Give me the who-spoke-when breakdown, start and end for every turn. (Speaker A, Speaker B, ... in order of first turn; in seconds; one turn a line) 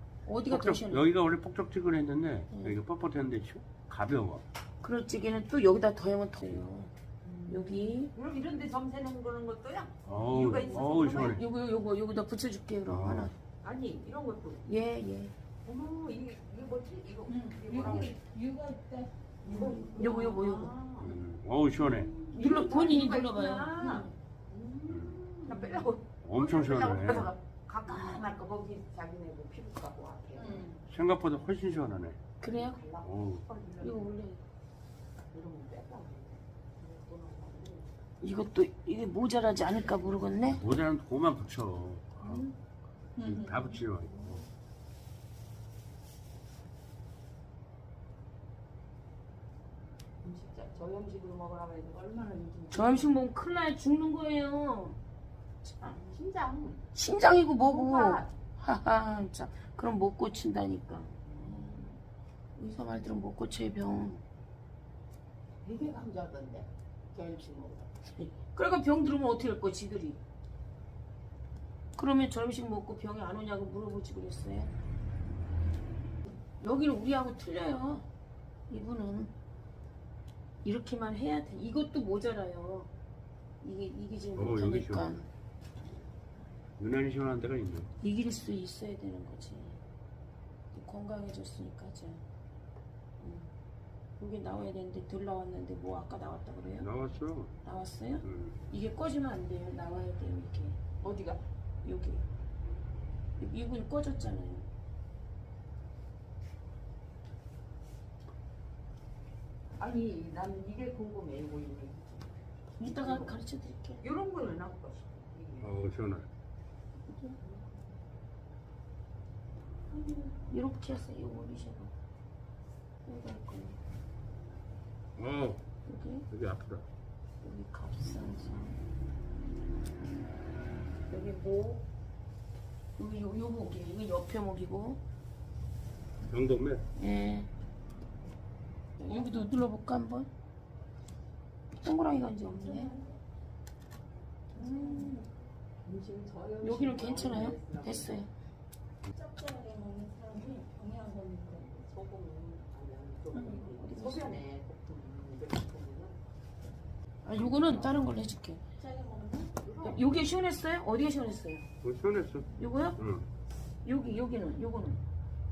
Speaker A: 0.2-1.0
Speaker B: 0.5-4.4
Speaker A: 2.5-2.8
Speaker A: 4.8-6.9
Speaker C: 7.2-11.4
Speaker A: 7.5-8.1
Speaker B: 10.0-11.4
Speaker A: 10.3-13.3
Speaker B: 12.9-13.3
Speaker C: 13.6-14.7
Speaker A: 14.6-15.3
Speaker C: 15.6-18.1
Speaker D: 17.3-20.3
Speaker B: 17.8-18.1
Speaker C: 19.4-21.2
Speaker A: 19.5-20.7
Speaker B: 21.0-22.1
Speaker C: 21.8-30.7
Speaker A: 22.3-23.9
Speaker B: 24.9-25.2
Speaker A: 25.5-25.9
Speaker B: 26.2-27.3
Speaker D: 30.5-30.8
Speaker B: 30.9-32.2
Speaker A: 32.4-32.8
Speaker C: 32.4-34.1
Speaker B: 33.0-33.4
Speaker A: 33.8-34.4
Speaker C: 35.3-38.0
Speaker A: 38.2-40.6
Speaker B: 40.4-42.4
Speaker B: 43.1-44.4
Speaker D: 43.2-43.7
Speaker C: 50.2-53.1
Speaker A: 52.7-55.0
Speaker A: 55.6-56.0
Speaker C: 55.9-56.9
Speaker A: 56.9-61.9
Speaker C: 57.6-58.3
Speaker C: 61.2-61.9
Speaker A: 62.5-64.2
Speaker C: 65.6-67.9
Speaker A: 68.2-70.2
Speaker A: 72.0-74.7
Speaker A: 76.6-78.0
Speaker A: 78.7-79.3
Speaker A: 80.6-82.9
Speaker A: 83.6-85.2
Speaker B: 84.3-85.2
Speaker B: 86.8-87.9
Speaker A: 88.0-89.8
Speaker A: 90.7-92.2
Speaker A: 93.2-93.5
Speaker A: 94.2-96.9
Speaker B: 96.8-97.5
Speaker A: 97.6-100.8
Speaker B: 98.2-98.6
Speaker C: 101.0-101.4
Speaker A: 101.8-102.2
Speaker A: 103.4-104.7
Speaker C: 109.8-112.3
Speaker A: 112.8-114.0
Speaker C: 112.9-113.4
Speaker C: 114.0-115.8
Speaker B: 115.6-116.3
Speaker A: 117.1-117.4
Speaker C: 117.4-117.7
Speaker A: 119.9-121.9
Speaker A: 123.0-123.8
Speaker B: 125.2-125.6
Speaker A: 125.8-126.2
Speaker B: 126.3-126.8
Speaker A: 127.4-128.7
Speaker A: 131.1-131.8
Speaker A: 133.0-135.0
Speaker B: 136.3-136.8
Speaker A: 137.0-137.5
Speaker A: 139.0-140.3
Speaker A: 141.8-143.0
Speaker D: 142.5-143.1
Speaker A: 144.5-145.2
Speaker D: 144.6-145.1
Speaker C: 145.8-148.2
Speaker A: 146.6-148.3
Speaker D: 149.1-151.6
Speaker C: 151.5-156.2
Speaker A: 153.3-154.4
Speaker A: 157.2-158.6
Speaker C: 157.6-158.0
Speaker D: 158.8-159.5
Speaker C: 159.6-160.4
Speaker A: 159.8-161.7
Speaker B: 161.8-163.3
Speaker A: 162.6-163.0
Speaker A: 163.8-165.0